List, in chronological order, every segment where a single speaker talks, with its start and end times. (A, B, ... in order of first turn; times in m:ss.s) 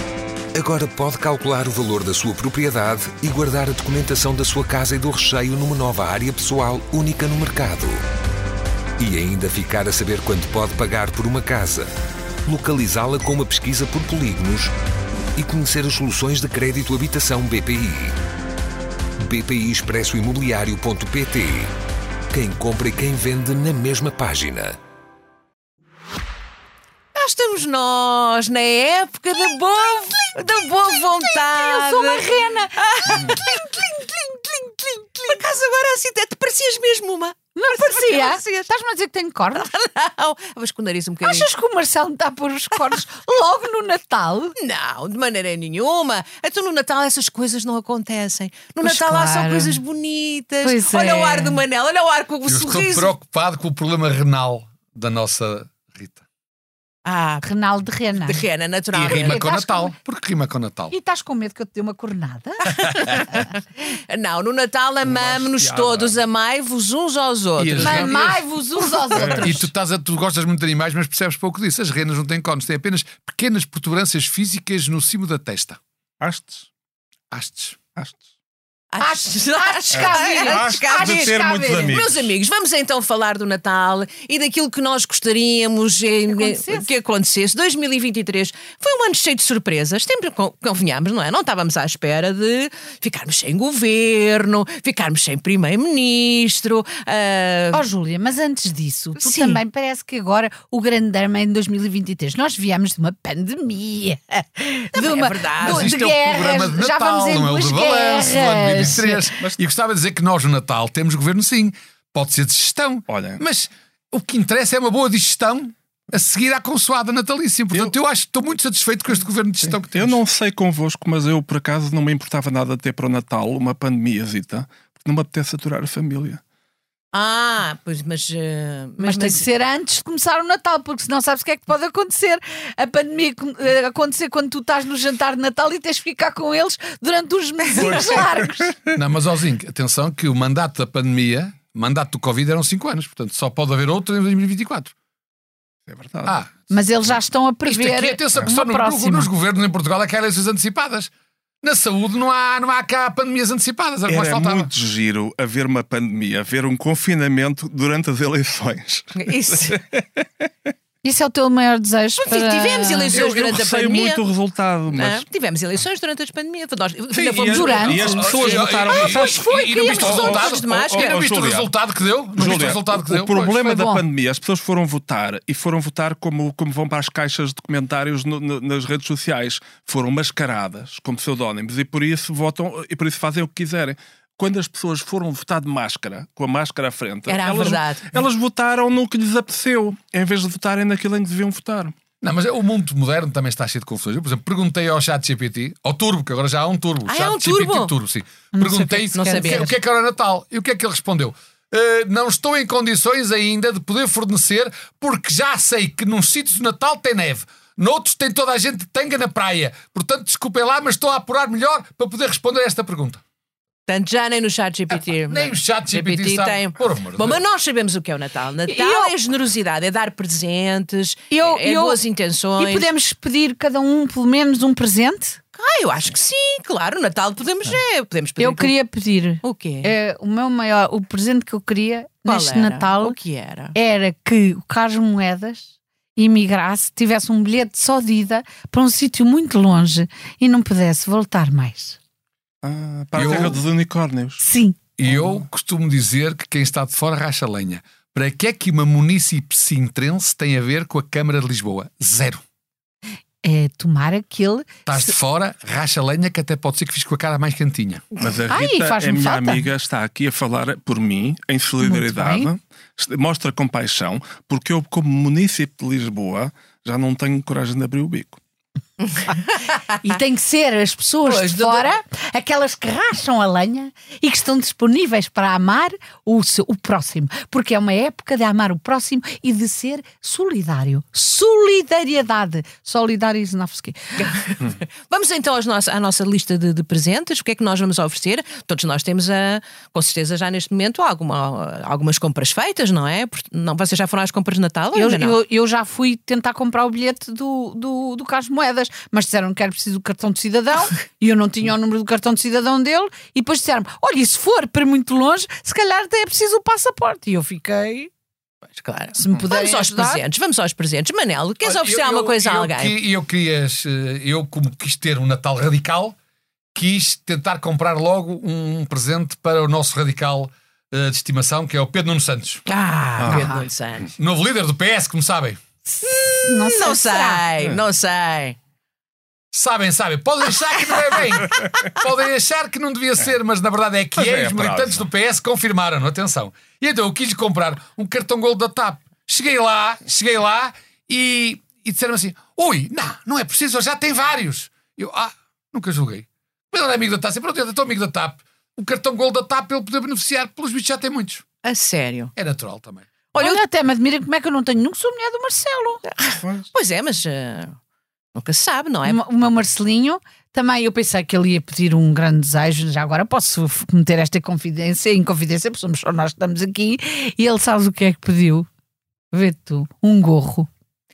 0:00.5-0:08.0 A
0:09.0-0:11.9 A
0:12.4-0:14.7 A
0:15.4-0:18.2 A
0:19.2-0:21.7 A
0:22.3-0:24.8 A
0:27.1-0:33.8 B
0:30.4-0:35.4 C
0:35.3-0:38.7 B
0:37.6-0:39.7 C
0:39.5-0:41.5 B
0:41.2-0:44.6 C
0:44.6-0:53.1 B
0:48.8-0:49.8 C
0:50.6-0:51.6 C
0:52.5-0:56.2 D
0:57.0-0:57.4 B
0:57.4-0:58.4 C
0:58.1-0:59.4 B
0:58.9-1:00.9 D
0:59.1-0:59.9 C
1:00.9-1:03.4 C
1:03.2-1:08.2 B
1:05.0-1:06.2 E
1:07.6-1:08.1 E
1:07.6-1:08.4 D
1:07.8-1:09.7 C
1:09.1-1:09.6 E
1:09.4-1:15.8 D
1:16.2-1:16.7 E
1:17.3-1:17.8 D
1:18.0-1:18.2 E
1:18.9-1:37.8 B
1:19.0-1:22.0 C
1:19.9-1:22.3 E
1:26.3-1:26.9 C
1:37.7-1:49.3 C
1:39.2-1:39.6 B
1:44.9-1:46.0 B
1:45.6-2:00.2 D
1:48.8-1:49.6 E
1:53.1-1:53.4 E
1:59.6-2:06.4 E
2:07.1-2:09.4 B
2:09.0-2:18.7 C
2:17.8-2:18.8 E
2:18.9-2:24.9 D
2:25.9-2:26.4 E
2:26.2-2:26.5 D
2:26.7-2:29.3 C
2:27.6-2:31.1 D
2:31.6-2:34.7 D
2:34.1-2:40.7 E
2:39.2-2:39.8 B
2:41.0-2:43.2 C
2:42.2-2:44.2 B
2:43.1-2:45.2 E
2:44.9-2:51.4 B
2:47.1-2:51.7 E
2:47.5-2:48.2 C
2:48.0-2:53.9 D
2:52.3-3:11.9 E
2:52.4-2:52.7 B
2:53.7-2:54.0 C
3:07.3-3:08.2 B
3:12.2-3:33.2 D
3:17.0-3:17.9 B
3:18.5-3:19.7 C
3:19.1-3:19.8 B
3:33.9-3:42.9 B
3:35.3-3:37.4 D
3:38.7-3:39.1 C
3:41.3-3:42.0 C
3:42.6-3:45.4 C
3:45.6-3:48.7 B
3:48.4-3:53.1 C
3:49.4-3:49.9 B
3:52.2-3:53.7 B
3:53.7-4:02.0 C
4:02.6-4:04.4 E
4:03.1-4:03.6 D
4:04.4-4:04.8 C
4:05.0-4:12.4 D
4:05.0-4:05.5 E
4:13.4-4:15.1 C
4:14.8-4:18.1 D
4:18.2-4:28.4 E
4:18.5-4:19.6 C
4:21.8-4:22.5 C
4:29.0-4:29.8 B
4:30.0-4:44.3 C
4:31.2-4:31.9 B
4:44.2-4:55.4 B
4:54.9-5:08.1 C
5:08.7-5:13.0 B
5:09.2-5:10.2 C
5:11.6-5:16.2 D
5:16.7-5:22.6 D
5:22.7-5:24.1 B
5:23.2-5:23.5 E
5:23.3-5:23.7 C
5:24.2-5:25.6 D
5:25.8-5:27.4 C
5:26.1-5:28.6 B
5:29.5-5:51.4 D
5:34.1-5:35.1 E
5:51.6-5:52.3 B
5:52.4-5:53.1 D
5:53.3-5:53.6 B
5:53.4-5:56.0 C
5:56.1-5:57.8 B
5:56.4-5:56.7 E
5:58.3-5:59.2 B
5:59.0-6:08.7 C
6:09.3-6:10.7 C